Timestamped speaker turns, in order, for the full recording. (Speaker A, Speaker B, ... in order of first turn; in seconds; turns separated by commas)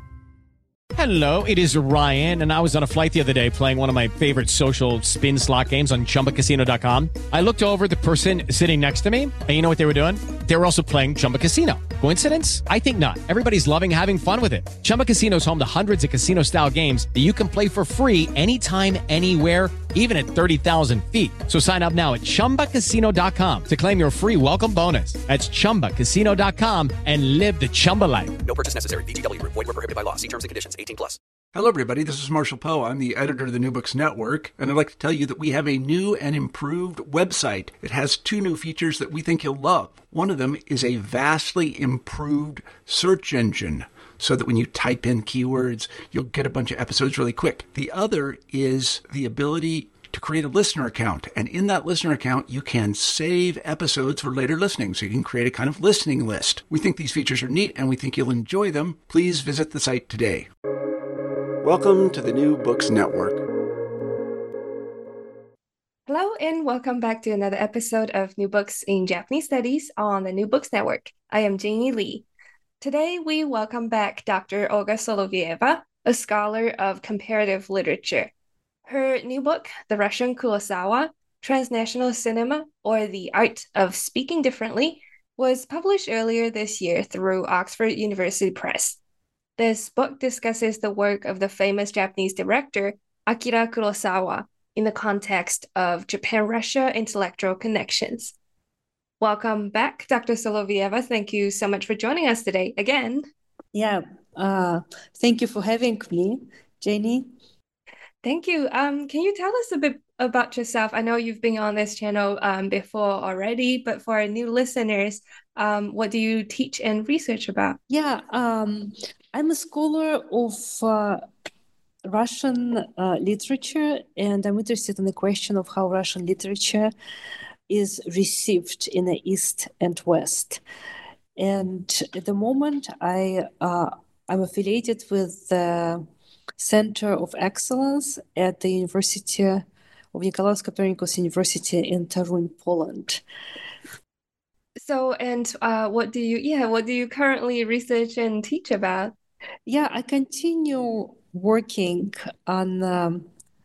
Speaker A: 0.9-28.4, Speaker B: 28.4-31.2, Speaker C: 31.5-60.5, Speaker C: 61.6-63.4, Speaker D: 66.1-72.2, Speaker D: 72.8-78.3, Speaker D: 78.8-89.0, Speaker D: 89.6-98.3, Speaker D: 99.2-103.2, Speaker E: 103.7-107.3, Speaker D: 108.2-117.8, Speaker E: 117.9-121.3, Speaker E: 122.1-126.9, Speaker E: 127.7-130.6, Speaker E: 131.4-136.1, Speaker E: 136.6-143.2, Speaker D: 144.8-149.1, Speaker E: 149.7-153.3